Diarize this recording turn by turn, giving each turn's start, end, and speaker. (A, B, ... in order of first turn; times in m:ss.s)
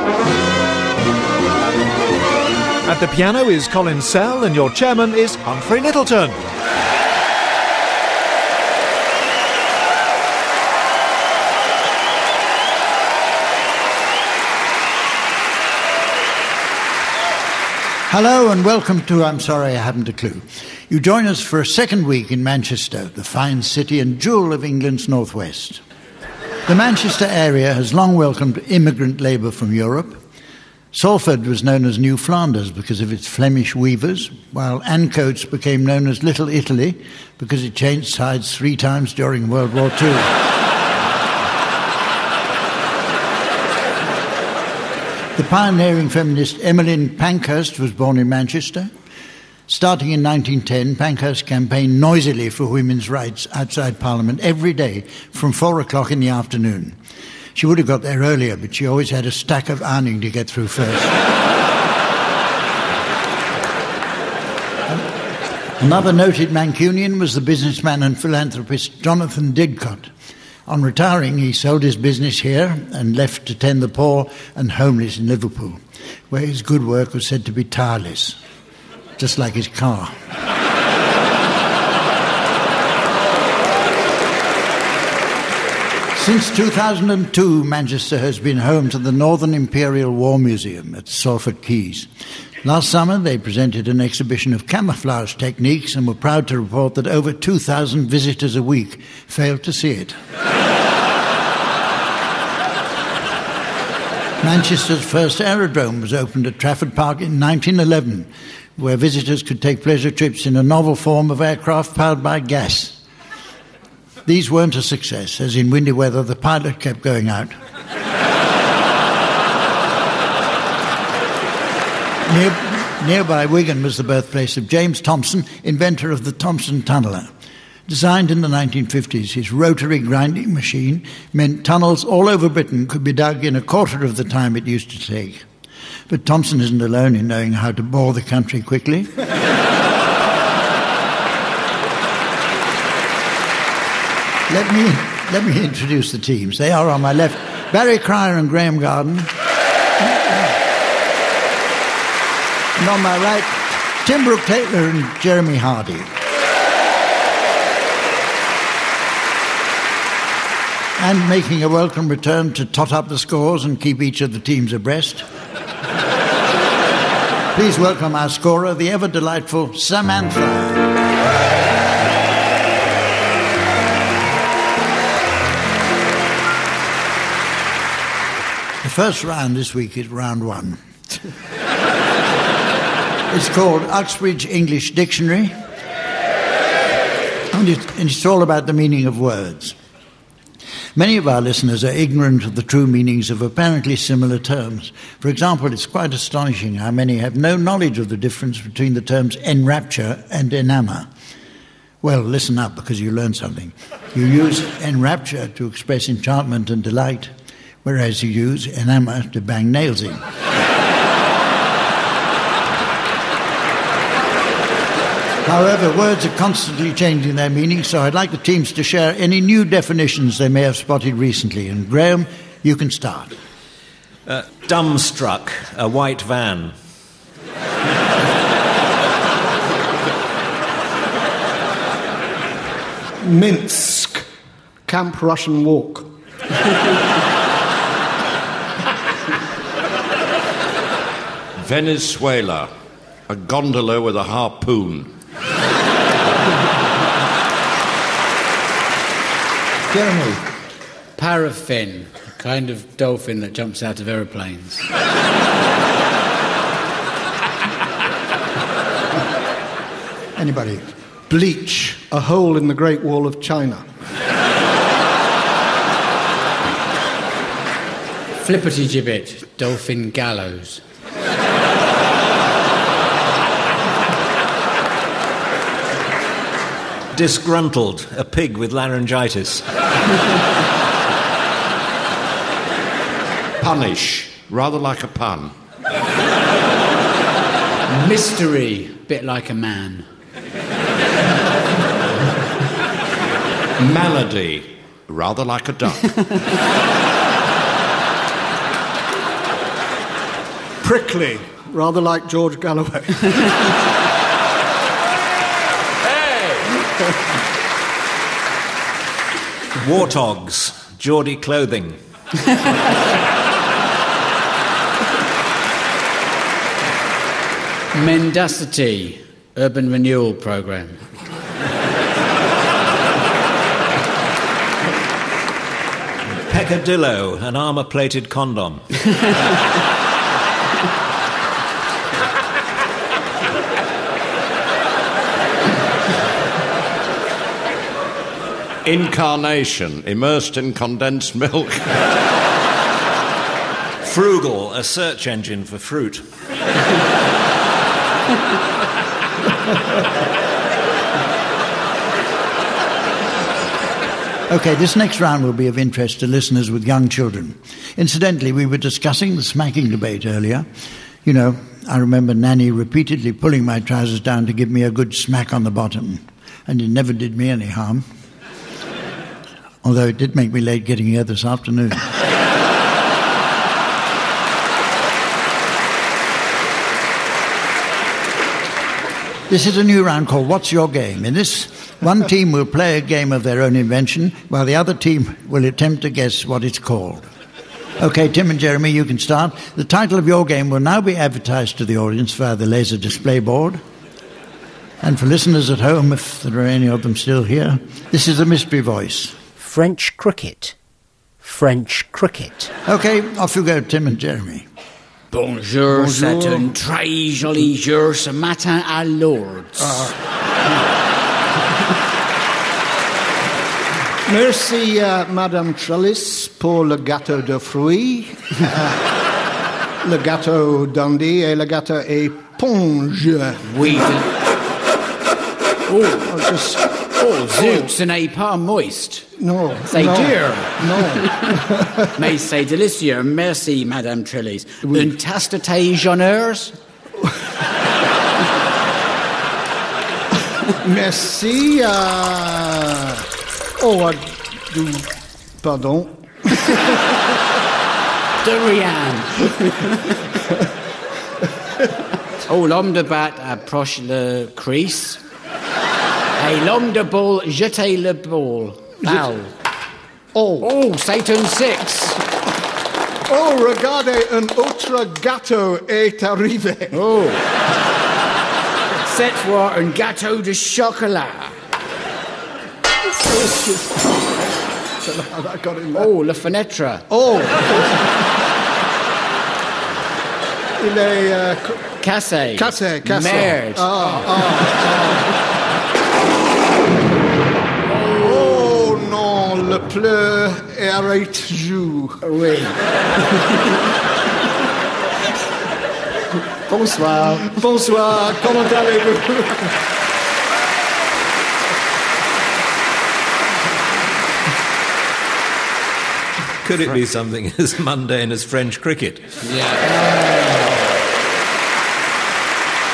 0:02.8-0:06.4 A
0:18.1-0:25.8 B
0:26.7-0:30.2 B
0:30.9-0:40.4 B
0:45.4-0:48.9 B
0:49.7-0:57.0 B
0:57.6-1:01.2 B
1:05.8-1:10.1 B
1:10.7-1:18.4 B
1:19.2-1:20.2 B
1:26.1-1:32.1 B
1:32.6-1:40.2 B
1:44.4-1:53.0 B
1:54.3-1:57.6 B
2:02.2-2:07.3 B
2:07.9-2:15.5 B
2:16.1-2:19.1 B
2:24.5-2:29.3 B
2:30.0-2:30.6 B
2:32.8-2:36.1 B
2:41.0-2:45.3 B
2:47.5-2:50.9 B
2:58.8-3:00.8 B
3:03.3-3:05.6 B
3:07.5-3:09.8 B
3:11.0-3:21.1 B
3:22.0-3:27.3 B
3:27.8-3:30.3 B
3:35.4-3:43.4 B
3:44.3-3:46.8 C
3:53.2-3:54.3 D
3:54.9-3:56.1 D
4:01.6-4:02.7 E
4:03.3-4:05.1 E
4:09.9-4:10.4 B
4:11.2-4:14.9 F
4:20.4-4:20.9 B
4:21.3-4:23.9 D
4:28.4-4:30.8 F
4:37.1-4:39.7 C
4:43.6-4:45.5 E
4:47.9-4:50.1 F
4:53.8-4:56.1 E
5:00.8-5:03.6 D
5:06.1-5:06.7 E
5:09.8-5:12.0 C
5:17.9-5:21.0 F
5:26.3-5:29.1 C
5:38.8-5:41.9 E
5:44.0-5:46.2 C
5:54.5-6:00.7 B
6:01.2-6:08.1 B
6:09.8-6:12.1 B
6:19.5-6:27.2 B
6:28.0-6:33.8 B
6:35.0-6:39.4 B
6:39.6-6:40.8 G
6:41.4-6:42.7 G
6:42.9-6:44.7 B
6:45.3-6:50.1 F
6:45.9-6:46.7 D
6:49.8-6:50.1 D
6:54.3-6:59.0 D
7:00.0-7:03.7 D
7:03.6-7:04.3 F
7:05.9-7:06.4 F
7:06.3-7:06.8 D
7:07.1-7:09.3 F
7:07.6-7:07.9 D
7:09.4-7:12.1 D
7:09.9-7:16.8 F
7:20.8-7:23.2 D
7:23.8-7:25.1 D
7:25.6-7:26.7 D
7:28.4-7:30.2 F
7:32.4-7:35.2 F
7:36.4-7:39.5 F
7:40.3-7:40.7 D
7:40.6-7:42.2 F
7:43.3-7:47.0 D
7:46.9-7:47.4 F
7:49.0-7:51.5 F
7:53.2-7:54.2 D
7:55.0-7:56.1 D
7:55.9-7:57.1 F
7:57.1-7:58.0 D
8:00.8-8:01.9 D
8:02.0-8:04.3 F
8:02.6-8:05.2 D
8:07.9-8:12.2 D
8:12.2-8:12.8 F
8:16.7-8:19.8 D
8:26.6-8:29.3 C
8:29.4-8:30.8 F